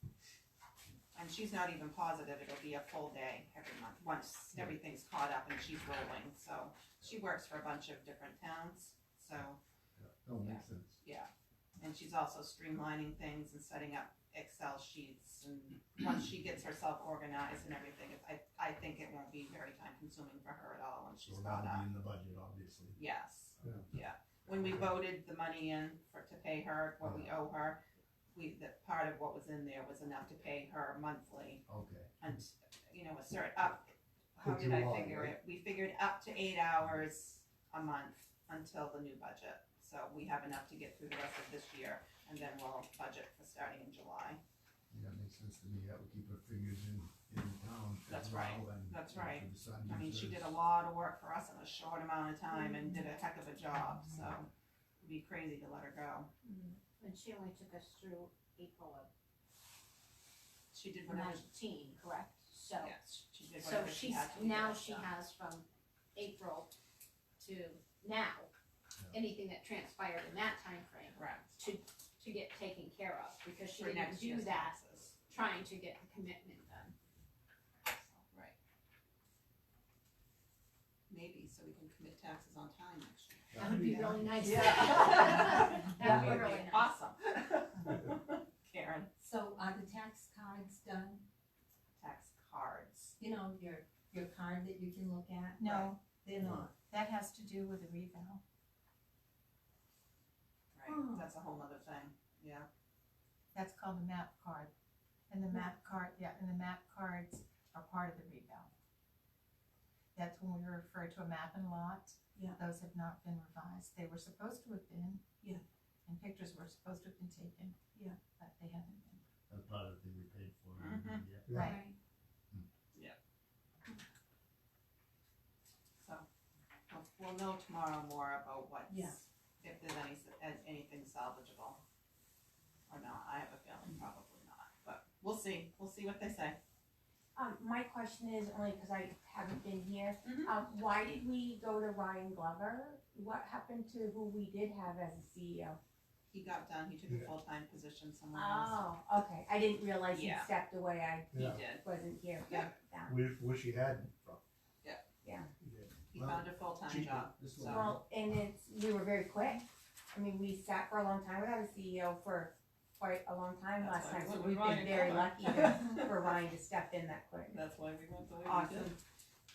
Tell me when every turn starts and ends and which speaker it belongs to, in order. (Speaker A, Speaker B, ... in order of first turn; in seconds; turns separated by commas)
Speaker A: 1.1-9.6, Speaker B: 10.0-11.0, Speaker A: 10.4-21.9, Speaker B: 21.2-23.0, Speaker A: 22.9-27.8, Speaker B: 24.5-25.0, Speaker B: 27.0-27.3, Speaker A: 28.3-31.6, Speaker B: 31.7-32.2, Speaker A: 32.2-44.4, Speaker B: 34.4-35.4, Speaker B: 44.9-50.5, Speaker A: 48.1-54.5, Speaker A: 55.0-56.3, Speaker C: 56.4-59.1, Speaker A: 60.7-61.5, Speaker C: 61.0-63.0, Speaker A: 62.8-65.1, Speaker C: 63.5-66.7, Speaker C: 67.4-68.5, Speaker C: 69.1-74.8, Speaker A: 71.2-71.5, Speaker A: 73.8-75.2, Speaker C: 75.3-77.0, Speaker A: 78.3-78.6, Speaker A: 81.1-89.1, Speaker B: 83.5-84.0, Speaker C: 83.5-87.0, Speaker D: 83.6-84.2, Speaker E: 89.4-91.2, Speaker A: 92.0-93.2, Speaker E: 93.3-95.5, Speaker F: 95.6-96.0, Speaker A: 95.6-95.9, Speaker B: 96.4-96.7, Speaker F: 96.9-98.4, Speaker A: 100.7-102.7, Speaker F: 103.5-104.7, Speaker F: 105.3-108.7, Speaker F: 110.2-115.2, Speaker F: 116.1-119.2, Speaker B: 119.5-121.5, Speaker A: 120.8-121.2, Speaker D: 121.5-121.8, Speaker F: 121.5-121.8, Speaker C: 121.6-121.9, Speaker A: 126.0-126.3, Speaker A: 126.9-131.8, Speaker A: 132.9-136.6, Speaker G: 137.3-145.8, Speaker A: 140.2-140.5, Speaker A: 146.3-148.9, Speaker G: 148.3-153.2, Speaker A: 150.1-150.5, Speaker D: 151.3-151.7, Speaker A: 151.4-151.9, Speaker A: 152.5-152.7, Speaker D: 153.1-154.4, Speaker G: 155.2-155.5, Speaker D: 155.6-155.9, Speaker A: 156.1-157.9, Speaker B: 156.1-158.0, Speaker G: 157.6-167.6, Speaker A: 163.8-166.4, Speaker A: 167.5-168.9, Speaker G: 168.4-169.0